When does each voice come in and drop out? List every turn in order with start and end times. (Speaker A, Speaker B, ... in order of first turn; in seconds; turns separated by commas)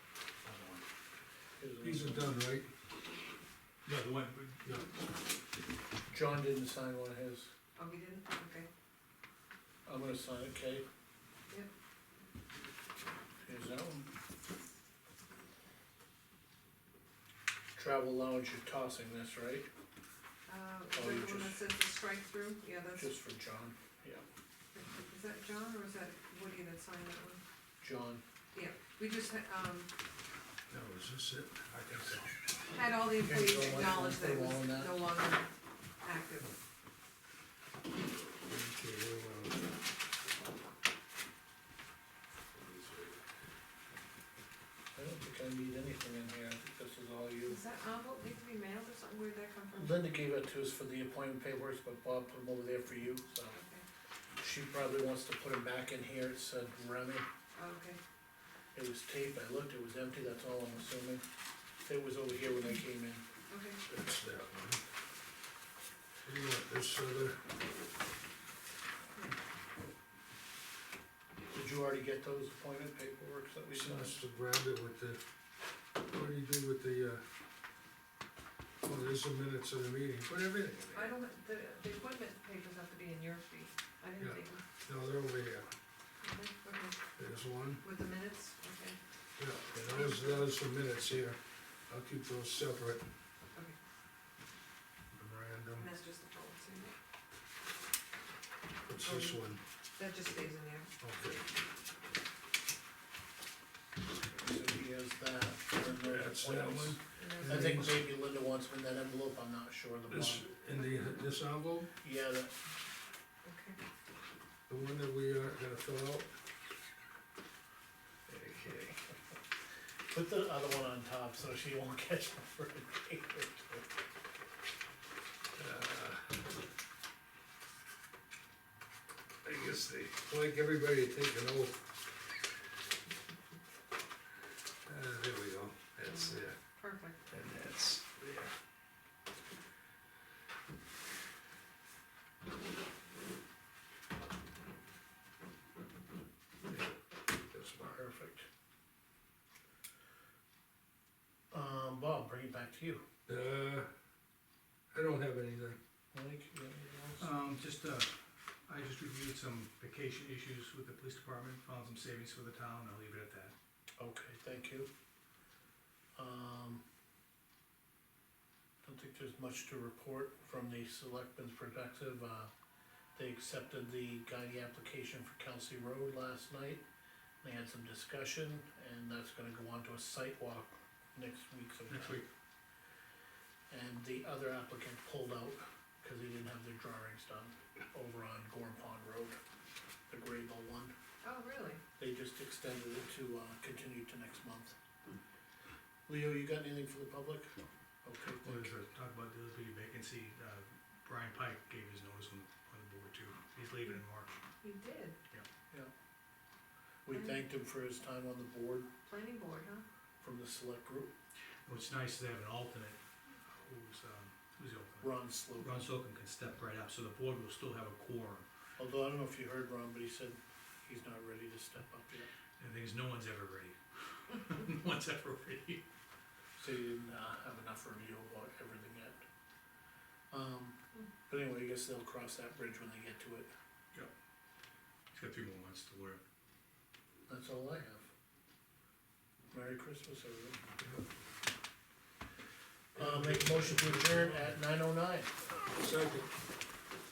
Speaker A: 0.4-0.8, Speaker B: 1.6-2.4, Speaker C: 1.8-2.7, Speaker A: 3.9-5.0, Speaker B: 6.1-7.5, Speaker D: 7.8-8.7, Speaker B: 9.8-10.8, Speaker B: 13.4-14.1, Speaker B: 17.8-19.7, Speaker D: 20.5-23.1, Speaker B: 20.9-21.6, Speaker B: 23.0-24.2, Speaker D: 24.7-27.4, Speaker B: 27.8-28.2, Speaker D: 28.5-29.9, Speaker C: 30.7-31.7, Speaker A: 31.7-32.2, Speaker D: 32.7-35.5, Speaker B: 33.1-35.0, Speaker D: 36.0-36.5, Speaker C: 38.4-39.7, Speaker C: 42.5-43.2, Speaker B: 44.9-47.6, Speaker D: 47.5-49.9, Speaker B: 49.7-53.6, Speaker D: 53.5-53.8, Speaker B: 54.4-57.3, Speaker D: 57.5-58.0, Speaker B: 58.7-61.2, Speaker B: 61.8-63.3, Speaker D: 63.5-63.8, Speaker C: 63.9-64.8, Speaker C: 66.2-67.5, Speaker B: 71.5-74.2, Speaker C: 73.7-75.2, Speaker C: 76.0-77.2, Speaker C: 78.8-81.1, Speaker D: 80.9-84.6, Speaker C: 84.2-85.7, Speaker D: 86.2-87.0, Speaker C: 87.2-87.8, Speaker D: 87.8-89.0, Speaker C: 89.4-93.1, Speaker D: 89.8-90.4, Speaker C: 95.1-95.9, Speaker D: 95.8-96.9, Speaker C: 98.9-99.6, Speaker D: 99.0-99.4, Speaker D: 100.0-100.9, Speaker C: 101.0-101.5, Speaker B: 104.3-110.5, Speaker C: 105.8-108.0, Speaker D: 107.2-107.7, Speaker C: 110.1-111.9, Speaker B: 112.0-112.5, Speaker D: 113.5-113.8, Speaker C: 114.7-116.3, Speaker B: 118.3-119.0, Speaker B: 120.1-123.9, Speaker C: 125.5-126.4, Speaker C: 129.4-131.8, Speaker C: 134.9-136.6, Speaker D: 136.1-137.2, Speaker C: 137.3-138.5, Speaker C: 147.5-148.0, Speaker B: 147.8-148.5, Speaker B: 151.5-153.0, Speaker C: 153.3-153.9, Speaker C: 154.9-155.8, Speaker B: 156.1-157.3, Speaker A: 157.2-158.1, Speaker A: 158.7-163.5, Speaker B: 164.0-164.9, Speaker B: 166.2-166.8, Speaker B: 168.8-172.5, Speaker B: 173.2-176.8, Speaker B: 177.4-182.3, Speaker A: 181.9-182.3, Speaker B: 183.7-189.4, Speaker B: 190.1-190.9, Speaker D: 191.2-191.8, Speaker B: 192.0-194.8, Speaker B: 196.1-198.7, Speaker A: 198.4-204.4, Speaker D: 204.6-205.2, Speaker B: 207.1-208.9, Speaker D: 207.1-207.4, Speaker D: 209.1-209.8, Speaker B: 210.2-211.1, Speaker A: 211.7-213.0, Speaker A: 213.5-218.5, Speaker B: 215.0-215.9, Speaker B: 218.8-222.3, Speaker A: 222.6-223.8, Speaker A: 224.3-225.8, Speaker B: 226.6-229.2, Speaker B: 230.3-230.8, Speaker B: 231.3-233.5, Speaker A: 235.1-236.2, Speaker B: 237.3-238.1, Speaker B: 239.5-240.6, Speaker B: 242.9-245.3, Speaker A: 243.0-244.4, Speaker C: 243.0-243.8, Speaker C: 245.7-246.3